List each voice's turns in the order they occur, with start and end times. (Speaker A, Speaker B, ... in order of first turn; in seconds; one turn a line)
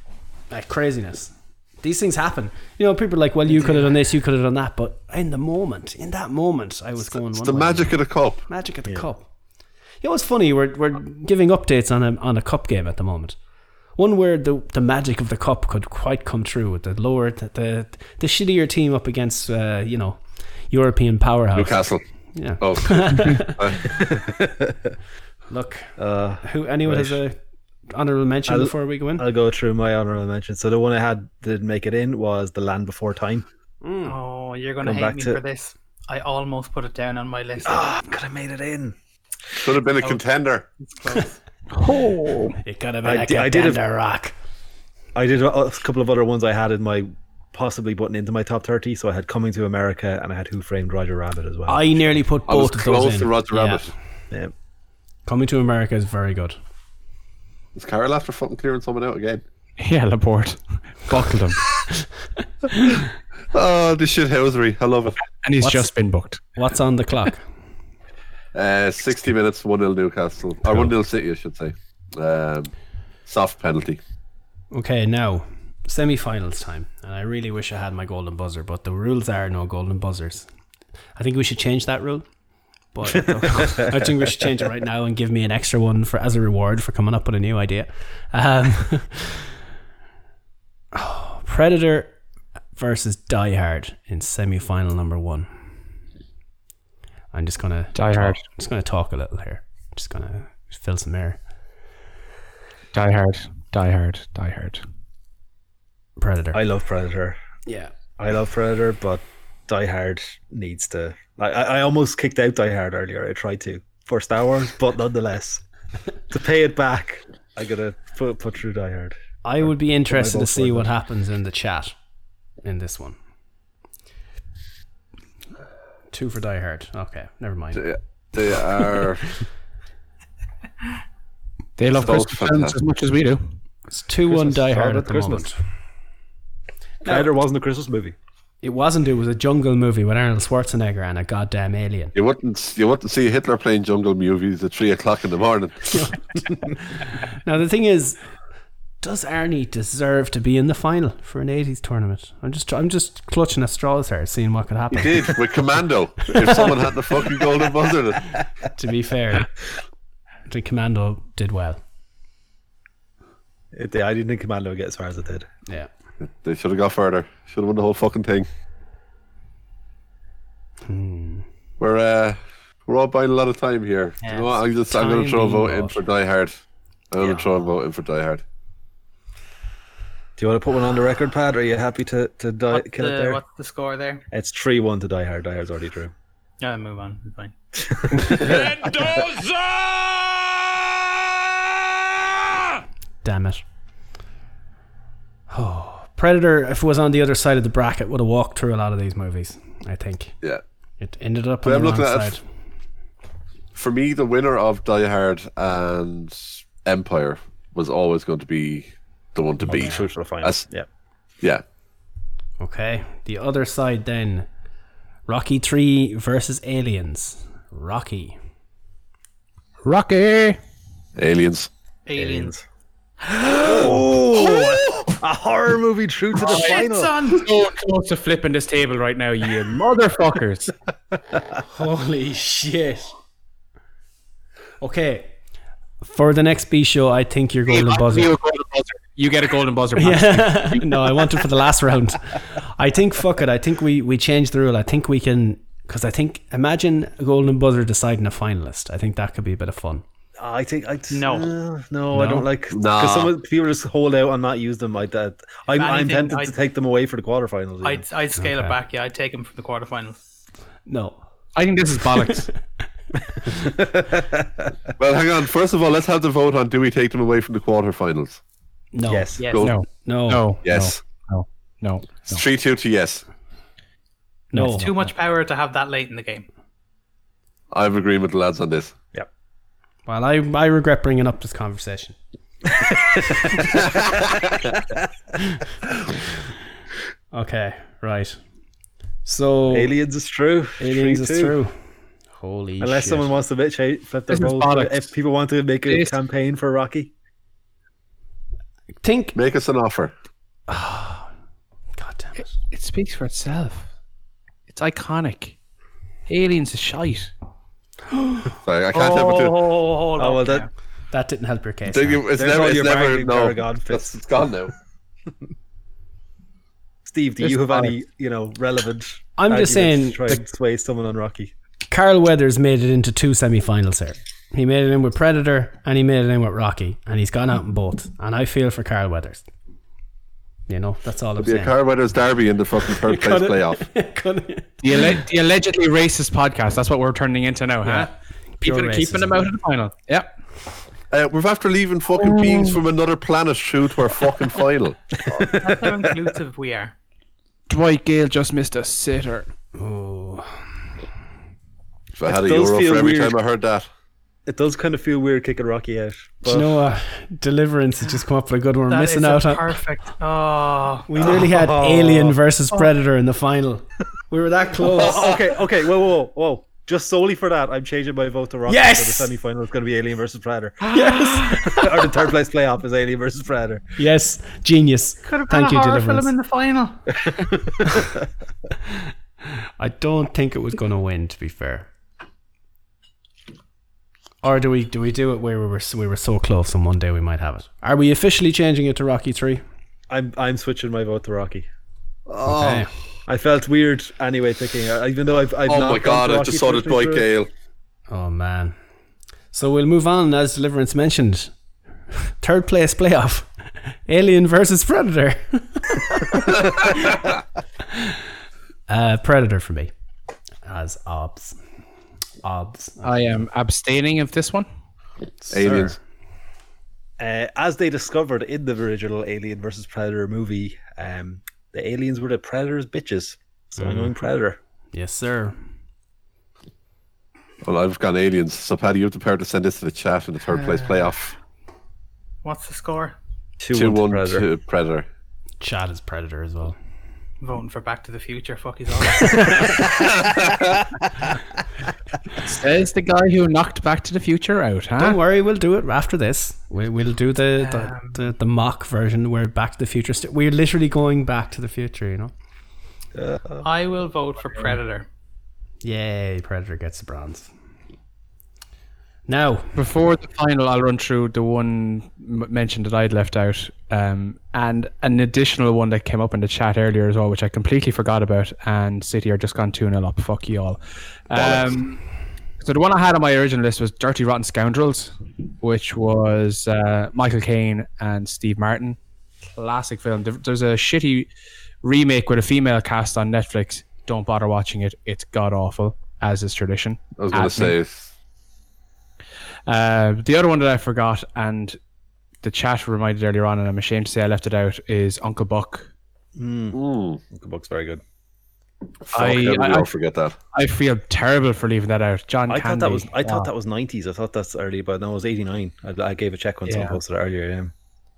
Speaker A: 0.5-9.3
Speaker B: 7.3-8.4
Speaker A: 10.0-13.3
Speaker A: 13.9-23.8
Speaker B: 21.5-22.0
Speaker B: 22.6-24.1
Speaker C: 23.9-24.9
Speaker A: 25.5-27.4
Speaker C: 26.0-27.2
Speaker A: 27.9-29.3
Speaker C: 28.5-33.5
Speaker A: 33.8-34.2
Speaker D: 34.0-38.0
Speaker C: 34.8-35.4
Speaker C: 37.6-38.9
Speaker B: 39.6-40.6
Speaker D: 40.8-41.4
Speaker E: 41.7-42.6
Speaker A: 42.6-44.3
Speaker C: 43.0-43.8
Speaker C: 45.1-52.2
Speaker A: 51.7-53.8
Speaker B: 52.5-53.9
Speaker A: 55.2-56.6
Speaker B: 57.7-59.4
Speaker E: 59.8-61.6
Speaker A: 62.7-63.0
Speaker B: 63.5-65.2
Speaker E: 65.3-66.4
Speaker A: 65.6-65.9
Speaker A: 66.5-67.4
Speaker B: 68.5-72.7
Speaker B: 73.2-74.0
Speaker A: 74.7-80.5
Speaker A: 81.2-82.3
Speaker A: 82.9-89.5
Speaker C: 83.1-84.1
Speaker A: 90.9-92.1
Speaker A: 92.8-95.5
Speaker A: 97.3-101.4
Speaker E: 97.9-98.4
Speaker E: 102.9-104.8
Speaker A: 106.2-106.6
Speaker C: 106.5-107.4
Speaker A: 107.7-107.9
Speaker C: 108.2-115.6
Speaker C: 116.3-120.9
Speaker A: 119.4-121.9
Speaker A: 122.6-123.2
Speaker A: 126.1-127.8
Speaker B: 127.8-129.4
Speaker E: 131.8-133.5
Speaker B: 131.9-132.8
Speaker A: 133.9-135.6
Speaker C: 134.3-135.5
Speaker C: 137.0-138.2
Speaker A: 138.6-142.1
Speaker B: 142.1-146.1
Speaker A: 146.9-148.2
Speaker A: 149.0-155.4
Speaker B: 154.9-158.4
Speaker A: 156.4-156.7
Speaker A: 158.7-159.5
Speaker A: 160.5-161.8
Speaker C: 163.7-165.5
Speaker B: 166.4-168.5
Speaker A: 170.8-171.4
Speaker B: 171.8-176.6
Speaker D: 174.2-174.6
Speaker A: 174.9-176.0
Speaker B: 177.1-178.4
Speaker C: 180.4-183.4
Speaker D: 182.7-184.2
Speaker C: 184.3-186.1
Speaker D: 186.6-187.5
Speaker C: 187.8-189.4
Speaker A: 193.2-193.6
Speaker A: 195.5-200.3
Speaker A: 201.0-202.4
Speaker B: 201.6-202.3
Speaker B: 203.7-210.6
Speaker C: 209.7-210.9
Speaker A: 212.6-214.5
Speaker A: 215.3-218.4
Speaker E: 219.8-220.6
Speaker B: 221.2-221.7
Speaker D: 222.1-222.6
Speaker C: 222.2-222.6
Speaker C: 223.3-227.1
Speaker D: 226.4-227.4
Speaker E: 227.3-230.7
Speaker A: 231.7-233.1
Speaker A: 234.8-235.3
Speaker A: 236.0-238.3
Speaker E: 237.7-241.5
Speaker A: 239.9-250.0
Speaker C: 250.4-258.0
Speaker D: 251.1-251.5
Speaker A: 252.1-252.4
Speaker B: 252.7-253.3
Speaker D: 255.7-256.5
Speaker D: 257.8-260.2
Speaker A: 258.4-258.8
Speaker A: 260.9-261.2
Speaker E: 261.5-262.5
Speaker A: 262.1-262.5
Speaker C: 263.4-264.7
Speaker B: 265.0-268.4
Speaker A: 268.9-269.3
Speaker C: 269.1-269.5
Speaker D: 269.4-269.7
Speaker B: 269.5-269.8
Speaker E: 269.6-272.4
Speaker A: 270.0-270.4
Speaker B: 270.6-271.0
Speaker B: 272.3-273.2
Speaker A: 274.5-274.9
Speaker E: 274.6-274.9
Speaker D: 274.7-276.4
Speaker B: 277.7-278.9
Speaker A: 280.1-282.2
Speaker C: 282.7-285.0
Speaker A: 287.3-288.4
Speaker A: 289.2-289.9
Speaker C: 289.7-291.6
Speaker A: 290.8-291.7
Speaker A: 292.4-293.3
Speaker C: 292.8-297.1
Speaker E: 294.3-295.1
Speaker E: 295.9-296.2
Speaker A: 299.0-299.4
Speaker B: 299.3-300.1
Speaker A: 300.7-301.3
Speaker A: 301.9-302.5
Speaker E: 302.6-303.9
Speaker E: 304.7-305.6
Speaker E: 306.3-307.3
Speaker B: 308.6-309.7
Speaker D: 308.9-310.7
Speaker C: 310.1-310.6
Speaker A: 311.1-312.2
Speaker B: 311.9-314.7
Speaker C: 312.3-314.2
Speaker C: 317.0-321.5
Speaker E: 317.4-317.9
Speaker A: 319.4-320.4
Speaker A: 321.9-329.4
Speaker A: 330.7-331.8
Speaker B: 331.4-333.8
Speaker A: 332.9-335.2
Speaker E: 334.8-338.1
Speaker A: 337.8-339.5
Speaker E: 338.6-340.3
Speaker B: 341.1-345.0
Speaker C: 345.2-346.2
Speaker D: 345.5-346.9
Speaker E: 347.7-349.5
Speaker A: 349.8-350.5
Speaker B: 352.2-353.9
Speaker C: 352.2-353.4
Speaker C: 354.4-356.8
Speaker A: 356.4-359.8
Speaker D: 358.9-361.1
Speaker A: 361.1-365.4
Speaker C: 361.2-362.4
Speaker C: 364.9-373.8
Speaker A: 368.7-369.3
Speaker A: 370.9-372.0
Speaker A: 374.0-376.3
Speaker D: 375.2-377.1
Speaker A: 379.8-381.9
Speaker A: 384.4-389.6
Speaker C: 390.1-391.7
Speaker B: 392.3-392.9
Speaker A: 392.4-392.9
Speaker C: 393.3-397.3
Speaker B: 395.7-397.5
Speaker A: 398.1-398.7
Speaker A: 399.5-401.5
Speaker A: 402.1-407.2
Speaker A: 407.9-408.2
Speaker A: 408.9-409.9
Speaker A: 410.6-411.6
Speaker A: 412.4-413.3
Speaker E: 413.0-414.7
Speaker A: 415.4-416.0
Speaker B: 415.5-416.0
Speaker C: 417.2-424.6
Speaker A: 423.8-424.1
Speaker A: 424.9-425.6
Speaker B: 427.6-431.3
Speaker D: 430.5-431.1
Speaker D: 432.4-433.1
Speaker C: 433.6-434.5
Speaker B: 433.7-435.1
Speaker A: 435.6-436.8
Speaker D: 437.4-440.0
Speaker E: 442.3-445.2
Speaker A: 445.0-452.3
Speaker D: 447.6-448.2
Speaker C: 453.1-453.7
Speaker D: 453.6-455.1
Speaker A: 455.8-457.5
Speaker A: 459.3-459.8
Speaker E: 459.8-472.0
Speaker B: 471.3-471.7
Speaker E: 472.6-479.0
Speaker E: 479.6-481.3
Speaker E: 481.8-487.8
Speaker B: 487.1-488.1
Speaker E: 489.6-491.8
Speaker E: 492.4-495.9
Speaker C: 496.4-496.8
Speaker B: 496.7-497.2
Speaker C: 497.3-498.0
Speaker B: 499.1-500.4
Speaker E: 499.1-499.9
Speaker E: 500.5-503.5
Speaker C: 502.5-507.7
Speaker E: 506.7-507.0